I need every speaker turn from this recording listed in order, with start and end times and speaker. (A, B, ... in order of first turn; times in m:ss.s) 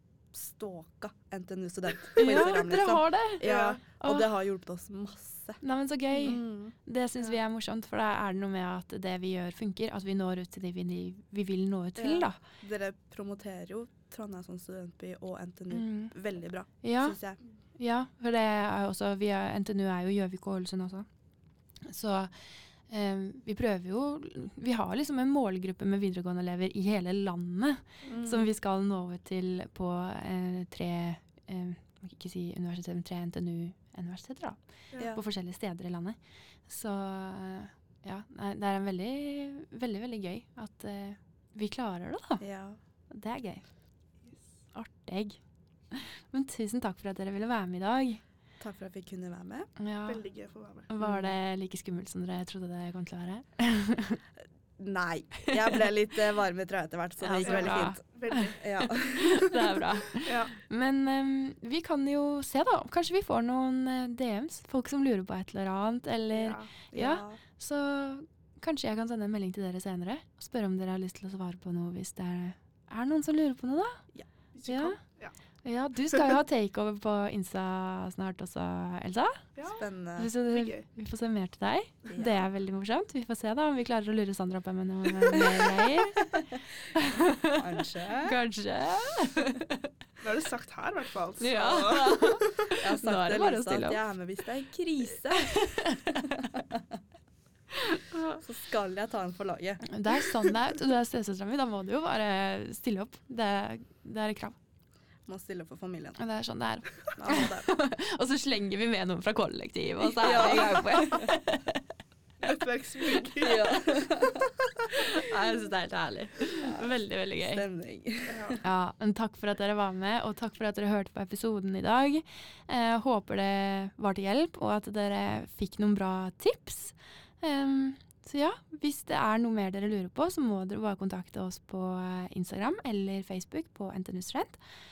0:00.3-0:05.6 A
0:02.2-0:04.3 B
0:03.4-0:03.8 C
0:05.6-0:12.4 B
0:06.2-0:06.8 A
0:12.0-0:17.4 A
0:15.7-0:16.1 B
0:16.8-0:17.2 B
0:17.8-0:21.1 B
0:21.8-0:22.3 B
0:22.9-0:34.6 B
0:28.1-0:28.5 A
0:35.1-0:42.4 B
0:42.4-0:42.8 A
0:43.1-0:43.6 B
0:44.2-0:44.5 C
0:44.7-0:45.4 B
0:45.9-0:48.2 B
0:48.6-0:49.7 A
0:49.8-0:50.2 B
0:50.1-0:50.9 C
0:50.9-0:54.2 B
0:51.0-0:51.3 A
0:54.8-0:58.0 A
0:57.2-0:58.5 B
0:57.4-0:59.5 C
0:58.6-0:59.8 A
0:59.2-1:14.0 B
1:00.2-1:00.6 C
1:06.3-1:06.7 C
1:06.9-1:07.4 A
1:14.5-1:15.4 C
1:14.7-1:15.0 B
1:15.6-1:19.5 B
1:19.6-1:19.8 C
1:19.8-1:20.3 A
1:20.2-1:26.3 B
1:20.5-1:20.9 C
1:22.1-1:22.5 A
1:25.4-1:28.4 A
1:26.8-1:29.9 B
1:30.2-1:32.6 C
1:31.4-1:34.0 B
1:32.8-1:37.0 A
1:35.3-1:36.5 B
1:37.7-1:38.4 B
1:38.4-1:40.6 A
1:39.8-1:44.6 B
1:45.3-1:46.2 A
1:46.2-1:51.8 B
1:47.2-1:47.7 A
1:50.0-1:51.3 A
1:52.4-1:54.4 C
1:53.4-1:54.5 A
1:54.9-1:57.6 B
1:56.6-1:58.6 A
1:58.3-1:58.6 C
1:58.6-2:14.6 B